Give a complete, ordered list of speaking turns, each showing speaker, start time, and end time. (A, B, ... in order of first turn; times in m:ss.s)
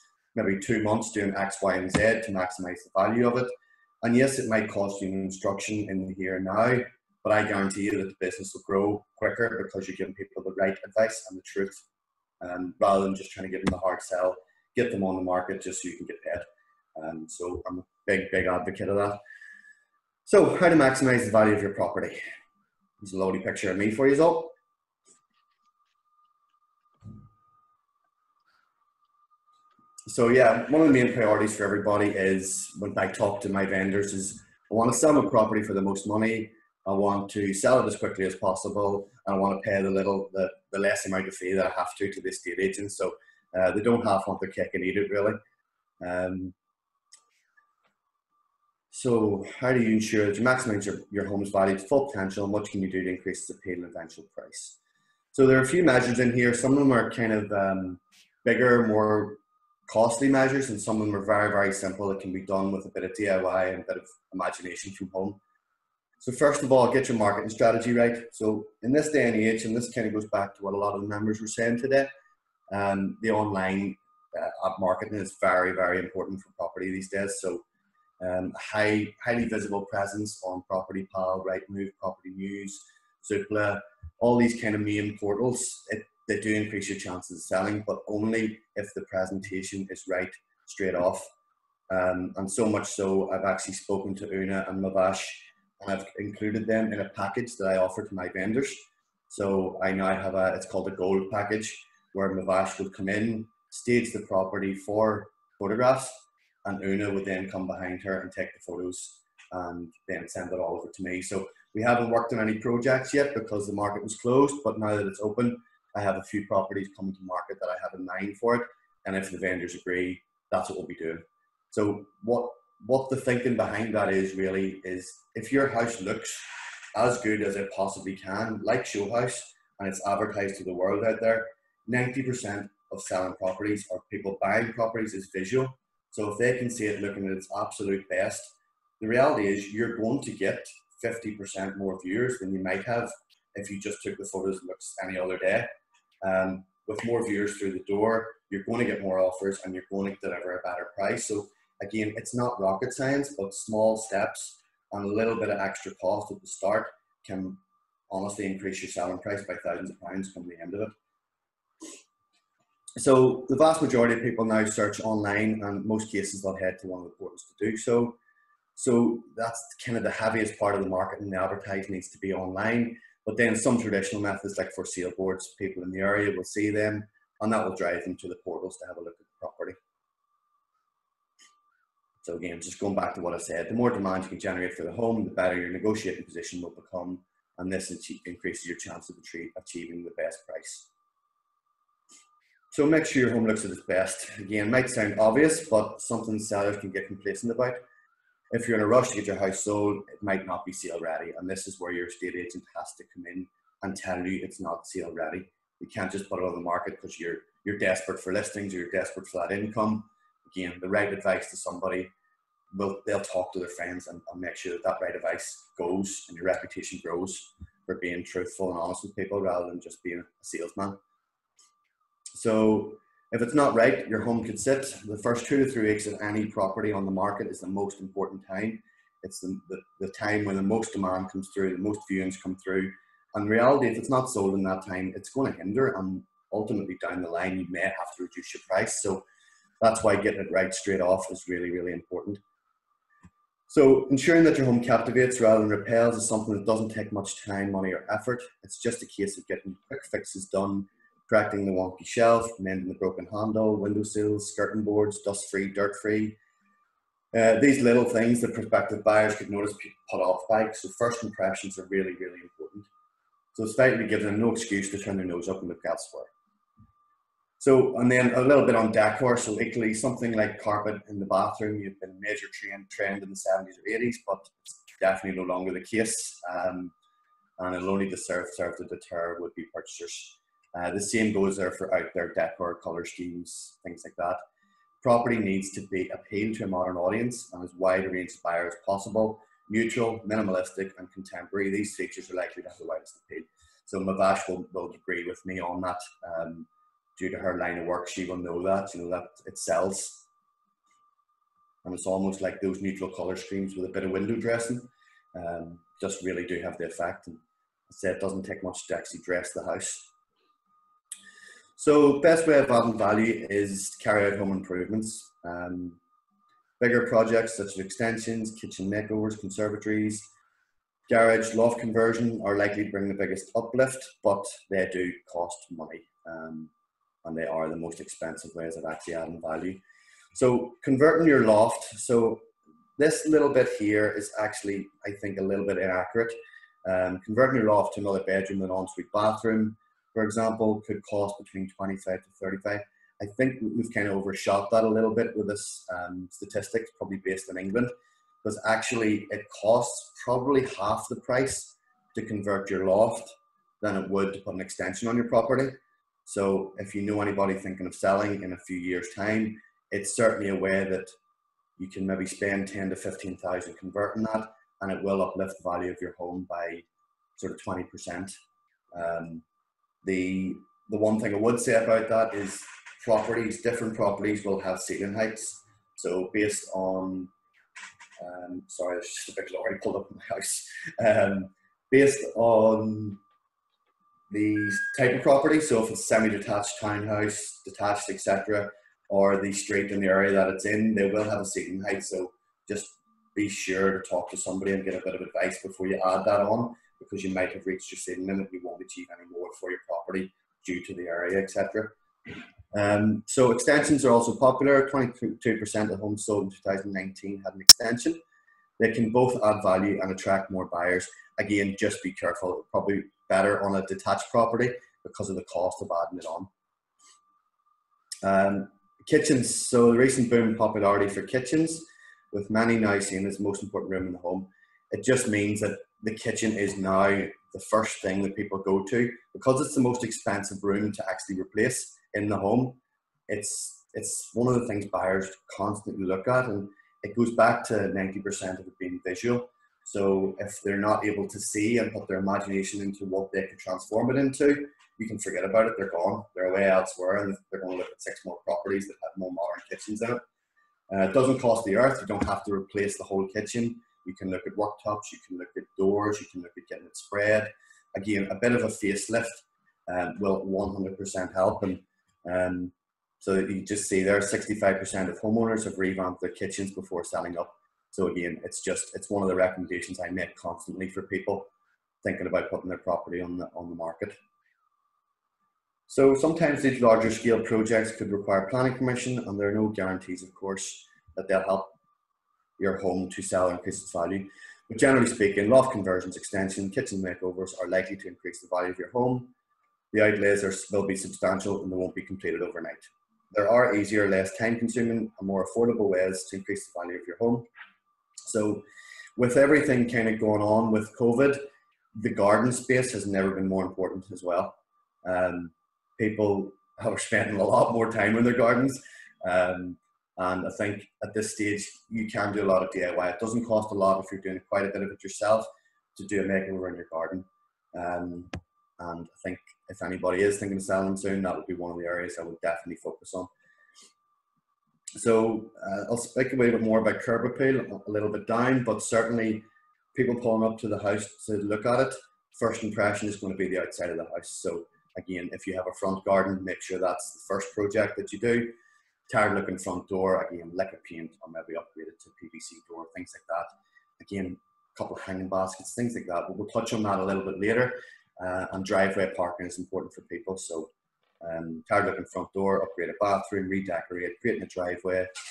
0:00.3-0:11.8 A
0:12.4-0:19.2 A
0:20.2-0:22.2 A
0:23.0-0:24.5 A
0:30.1-0:45.4 A
0:46.0-0:46.5 A
0:48.9-0:54.8 A
0:55.3-1:05.4 A
1:06.2-1:12.1 A
1:12.7-1:17.6 A
1:18.2-1:31.3 A
1:31.9-2:25.7 A
2:26.2-2:40.9 A
2:43.0-2:48.2 A
2:48.8-2:59.8 A
3:02.2-3:10.9 A
3:12.7-3:17.8 A
3:18.5-3:32.1 A
3:32.7-3:41.0 A
3:42.3-3:59.2 A
3:59.8-4:02.4 A
4:03.7-4:16.4 A
4:17.3-4:22.9 A
4:23.5-4:26.3 A
4:27.6-4:36.9 A
4:37.6-4:44.4 A
4:45.0-5:00.2 A
5:01.8-5:07.4 A
5:07.9-5:10.1 A
5:11.8-5:16.0 A
5:16.8-5:20.3 A
5:21.1-5:26.7 A
5:27.2-5:29.8 A
5:30.3-6:01.1 A
6:01.8-6:06.8 A
6:07.4-6:08.4 A
6:08.9-6:09.4 A
6:10.0-6:17.3 A
6:18.2-6:23.2 A
6:24.3-6:41.9 A
6:42.7-6:48.2 A
6:48.8-6:56.5 A
6:58.2-7:30.2 A
7:30.9-7:51.5 A
7:52.0-7:54.2 A
7:55.9-8:01.7 A
8:02.6-8:09.3 A
8:09.9-8:17.5 A
8:18.2-8:18.6 A
8:19.2-8:21.4 A
8:21.9-8:43.3 A
8:45.0-8:58.5 A
8:59.1-9:10.7 A
9:11.2-9:15.1 A